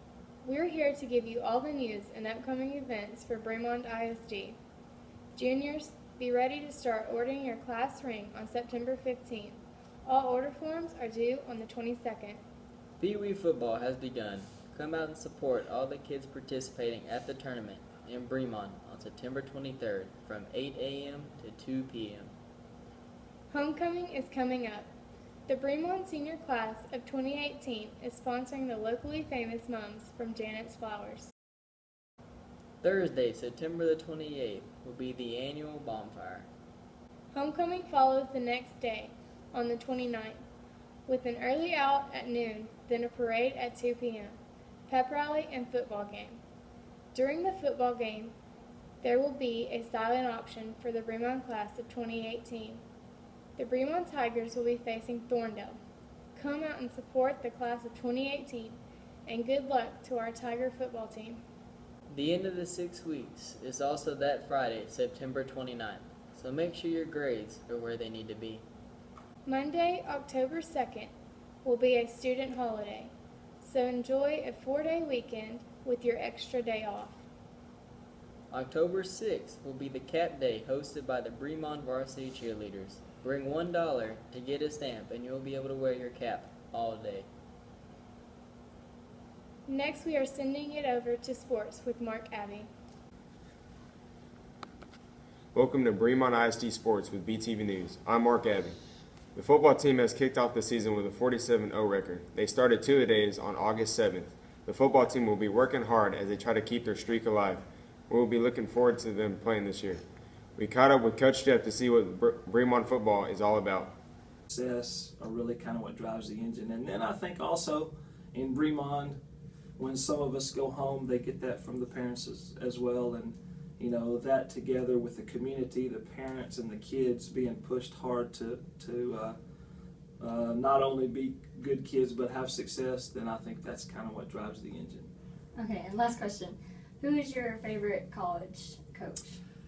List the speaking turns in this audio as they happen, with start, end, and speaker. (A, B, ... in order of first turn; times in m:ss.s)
0:00.4-0:04.6 A
0:05.4-0:12.4 A
0:13.0-0:22.3 B
0:23.5-0:24.9 A
0:25.5-0:31.3 A
0:32.8-0:36.5 B
0:37.3-0:40.4 A
0:41.1-0:46.4 A
0:47.1-0:48.3 A
0:49.0-0:52.8 A
0:53.6-0:55.8 A
0:56.3-1:01.4 A
1:02.1-1:08.6 B
1:09.4-1:11.1 A
1:11.6-1:17.2 A
1:18.5-1:27.3 B
1:29.7-1:32.7 A
1:35.5-1:38.8 C
1:39.3-1:50.0 C
1:50.6-1:53.9 C
1:54.5-1:59.2 D
1:59.8-2:09.4 D
2:10.2-2:15.1 D
2:15.6-2:19.3 E